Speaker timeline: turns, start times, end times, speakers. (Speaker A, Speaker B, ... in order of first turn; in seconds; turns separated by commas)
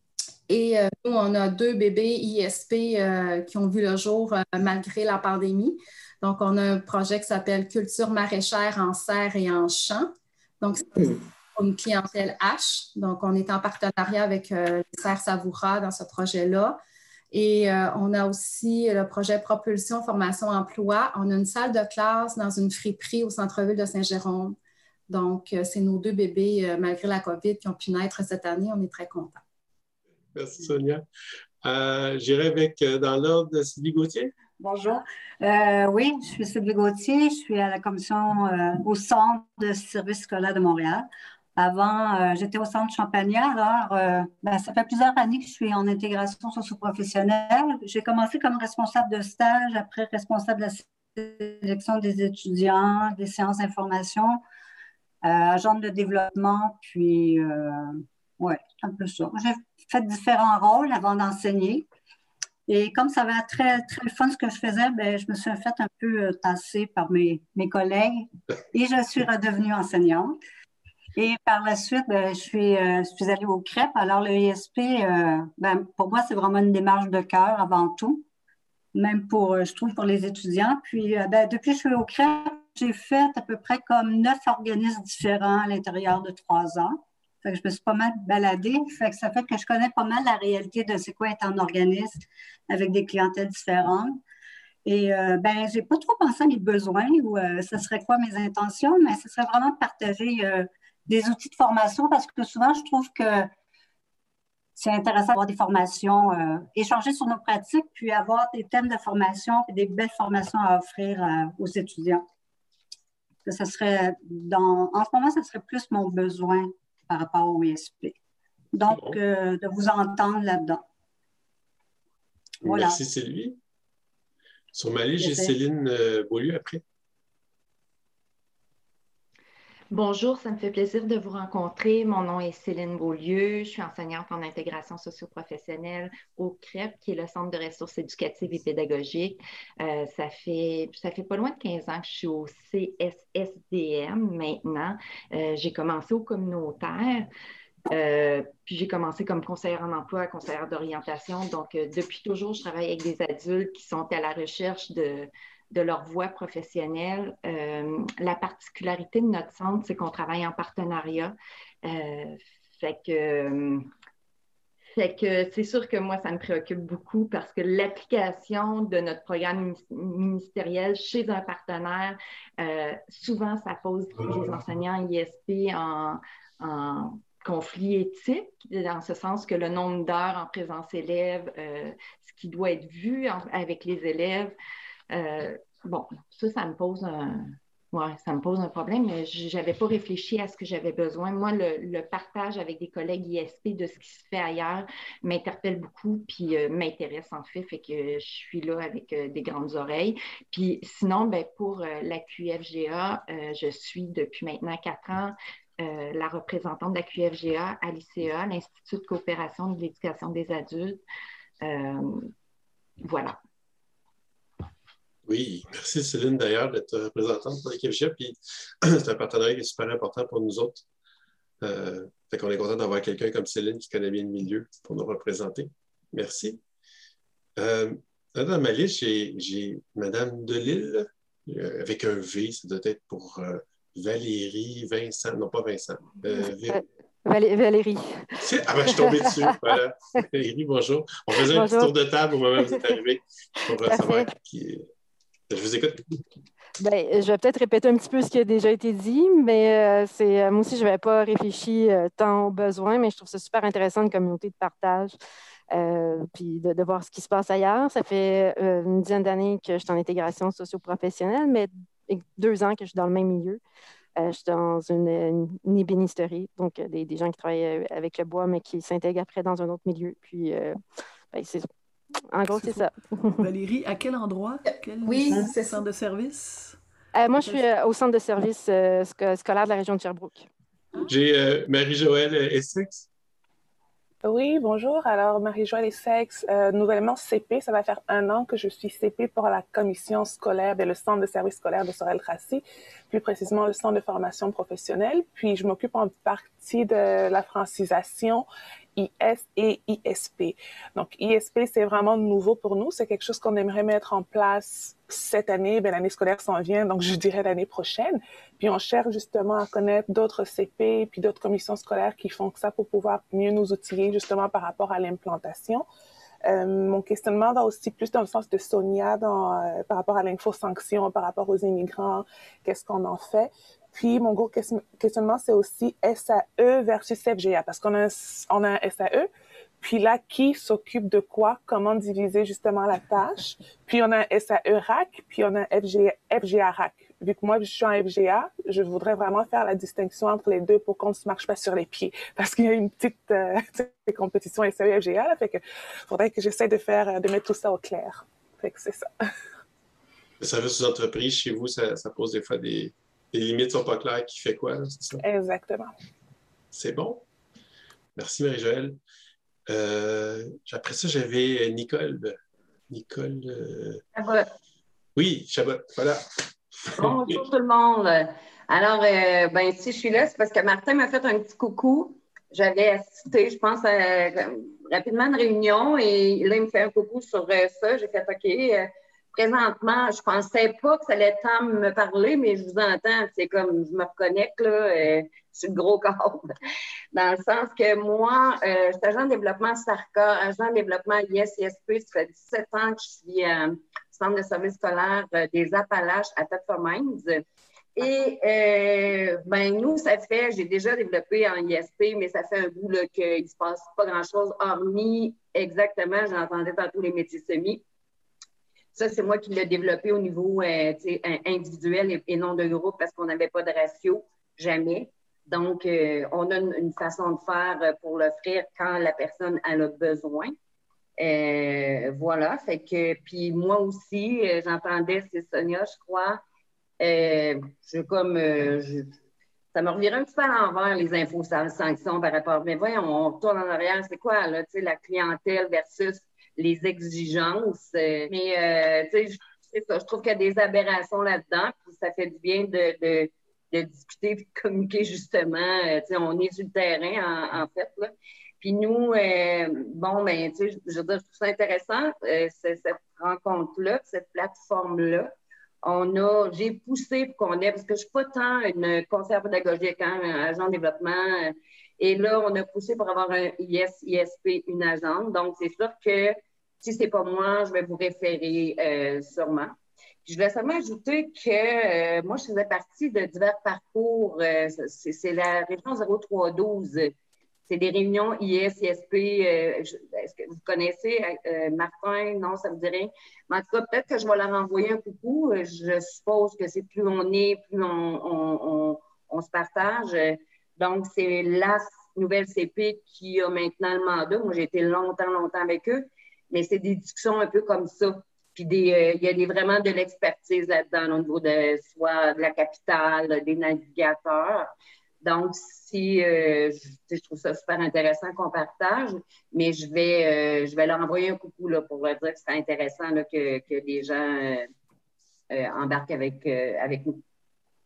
Speaker A: 0.5-16.8, Speaker A: 17.3-24.6, Speaker A: 25.1-29.4, Speaker B: 30.3-31.0, Speaker B: 31.6-34.3, Speaker C: 34.6-54.4, Speaker C: 55.2-61.9, Speaker C: 62.7-70.4, Speaker C: 71.2-78.2, Speaker C: 78.9-94.2, Speaker C: 94.8-103.5, Speaker C: 104.8-112.2, Speaker C: 113.4-118.2, Speaker C: 118.7-120.8, Speaker B: 118.9-119.2, Speaker B: 122.6-123.6, Speaker C: 122.6-123.0, Speaker B: 124.7-126.8, Speaker C: 125.2-125.5, Speaker D: 129.9-147.3, Speaker D: 147.9-163.9, Speaker D: 164.9-184.5, Speaker D: 185.1-211.0, Speaker D: 211.6-212.3, Speaker D: 213.0-213.4, Speaker B: 215.2-220.8, Speaker B: 221.6-226.6, Speaker B: 227.6-236.8, Speaker E: 236.3-240.2, Speaker B: 238.4-244.8, Speaker E: 241.3-241.9, Speaker E: 242.6-243.0, Speaker E: 243.7-244.3, Speaker B: 245.5-246.2, Speaker E: 246.8-255.1, Speaker E: 255.7-263.6, Speaker E: 264.2-270.8, Speaker E: 271.3-271.7, Speaker E: 272.3-273.4, Speaker F: 272.5-276.8, Speaker A: 275.0-275.8, Speaker E: 277.1-280.4, Speaker B: 281.0-283.1, Speaker G: 284.2-315.9, Speaker G: 316.4-329.3, Speaker G: 329.8-349.1, Speaker B: 350.4-355.2, Speaker G: 355.2-355.9, Speaker B: 356.7-357.2, Speaker B: 358.1-359.0, Speaker B: 359.7-362.3, Speaker B: 362.9-364.0, Speaker H: 364.1-364.5, Speaker B: 365.1-366.2, Speaker B: 366.9-367.4, Speaker H: 367.0-386.5, Speaker H: 387.1-397.4, Speaker H: 397.9-407.8, Speaker H: 408.9-420.5, Speaker H: 421.2-426.4, Speaker H: 427.0-429.1, Speaker H: 429.7-455.3, Speaker H: 455.8-477.1, Speaker H: 477.7-514.7, Speaker H: 515.5-517.2